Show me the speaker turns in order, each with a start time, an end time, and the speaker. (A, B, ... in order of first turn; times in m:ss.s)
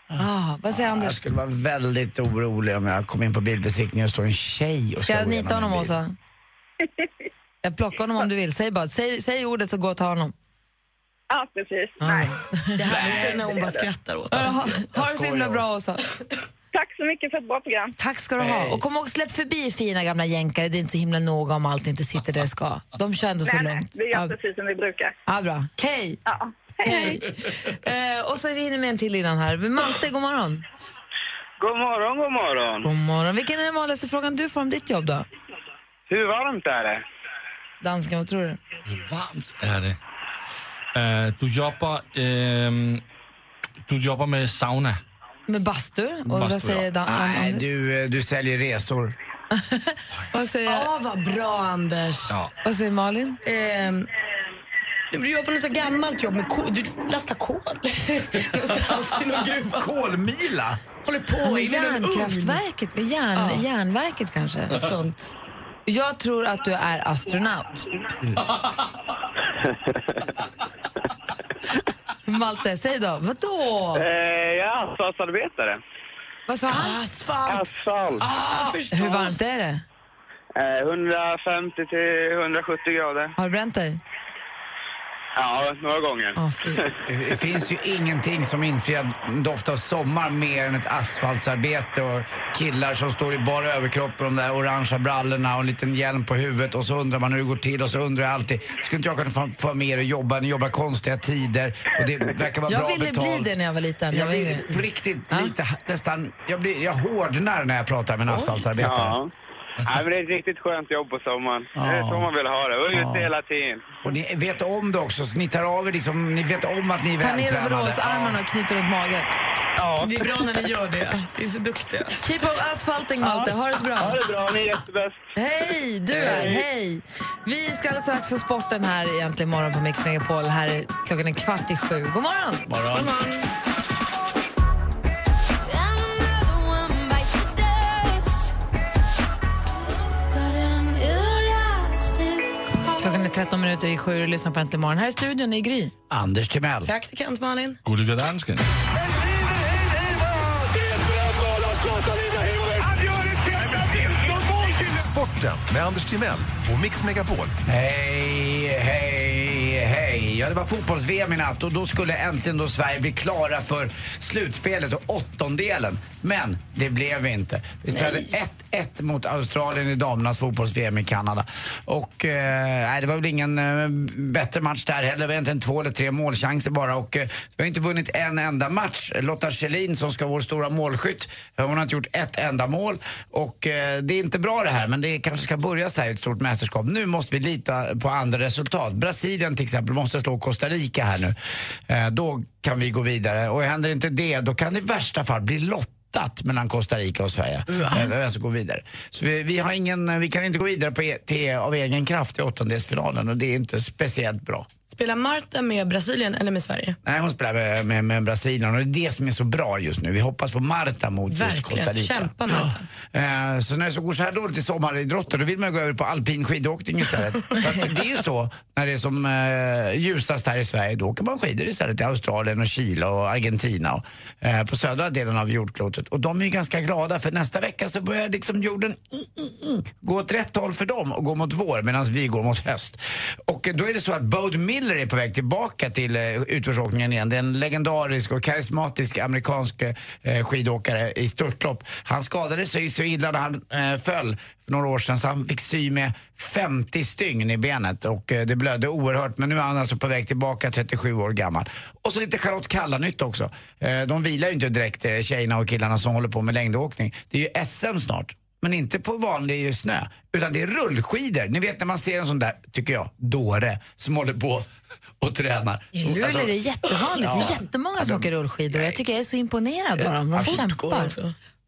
0:00.1-0:06.0 A
0:00.2-0:01.2 B
0:05.0-0:06.2 B
0:07.6-0:10.3 B
0:11.3-0:12.4 C
0:12.0-0:13.1 B
0:12.8-0:14.8 D
0:13.0-0:13.9 C
0:14.3-0:16.0 B
0:14.9-0:15.7 A
0:16.7-0:17.9 C
0:18.0-0:24.3 B
0:18.4-0:18.8 A
0:23.4-0:25.1 C
0:25.3-0:26.2 B
0:26.2-0:27.2 C
0:26.8-0:30.6 B
0:31.6-0:32.9 E
0:32.8-0:35.2 B
0:36.1-0:37.0 E
0:37.8-0:38.6 B
0:38.9-0:40.0 F
0:40.9-0:43.0 F
0:43.8-0:45.0 F
0:45.5-0:47.6 B
0:46.3-0:46.9 F
0:47.0-0:49.2 A
0:49.5-0:50.9 B
0:50.6-0:52.3 D
0:52.6-0:53.4 B
0:53.4-0:54.1 D
0:55.1-0:59.9 D
0:59.7-1:00.8 A
1:01.0-1:02.6 D
1:01.4-1:04.8 B
1:03.3-1:03.6 D
1:04.7-1:05.3 D
1:05.8-1:07.9 B
1:12.2-1:14.0 B
1:13.9-1:15.8 E
1:16.5-1:17.0 B
1:16.7-1:17.6 D
1:17.5-1:18.3 E
1:18.2-1:19.4 D
1:18.3-1:19.8 B
1:20.6-1:23.3 E
1:23.4-1:24.0 B
1:25.4-1:26.9 E
1:26.4-1:26.8 B
1:27.1-1:43.5 A
1:42.7-1:44.8 B
1:44.1-1:49.2 A
1:48.8-1:49.3 E
1:49.8-1:53.9 E
1:51.7-1:52.3 A
1:52.9-1:53.3 A
1:54.0-1:58.4 A
1:57.2-1:59.3 B
1:59.8-2:00.3 E
2:00.0-2:02.2 D
2:02.2-2:04.2 B
2:03.2-2:05.2 E
2:05.4-2:12.6 B
2:06.1-2:06.6 E
2:12.6-2:13.2 A
2:12.9-2:13.5 D
2:23.0-2:25.9 B
2:26.1-2:26.9 A
2:26.9-2:27.8 D
2:27.8-2:28.6 F
2:29.1-2:37.5 G
2:37.6-3:11.4 A
3:11.9-3:24.7 A
3:24.9-3:27.0 D
3:27.0-3:32.3 A
3:31.3-3:32.8 D
3:33.1-4:24.7 A
4:25.2-4:26.5 A
4:26.0-4:31.1 B
4:27.1-4:29.0 A
4:30.0-4:30.6 A
4:30.4-4:31.3 D